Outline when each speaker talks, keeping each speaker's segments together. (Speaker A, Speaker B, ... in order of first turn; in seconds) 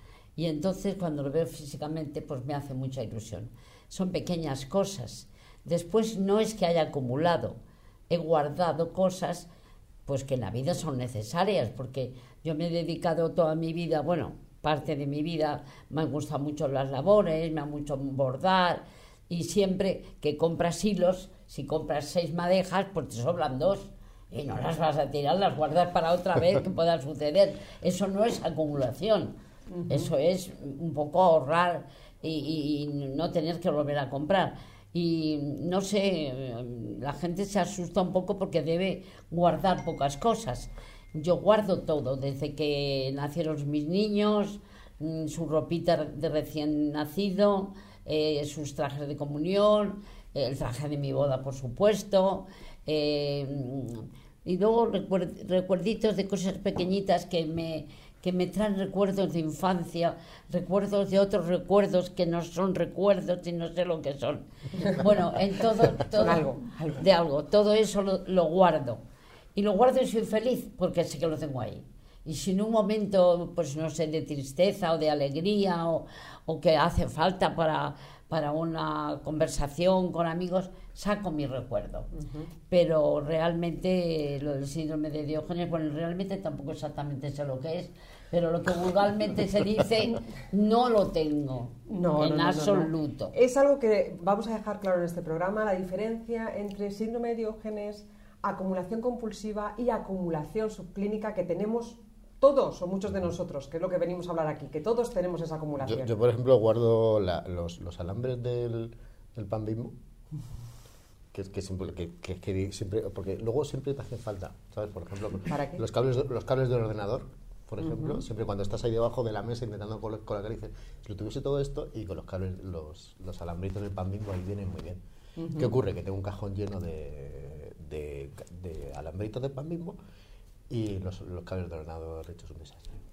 Speaker A: 0.4-7.6, 8.1-9.5, 10.1-29.4, 29.9-69.0, 69.5-82.1, 82.7-93.3
Speaker B: 29.8-30.1, 66.2-67.0, 82.1-82.5, 91.9-106.1, 115.5-115.8, 117.8-118.2, 125.4-125.7
Speaker C: 105.8-110.0, 111.3-125.0, 125.5-130.0, 130.7-132.9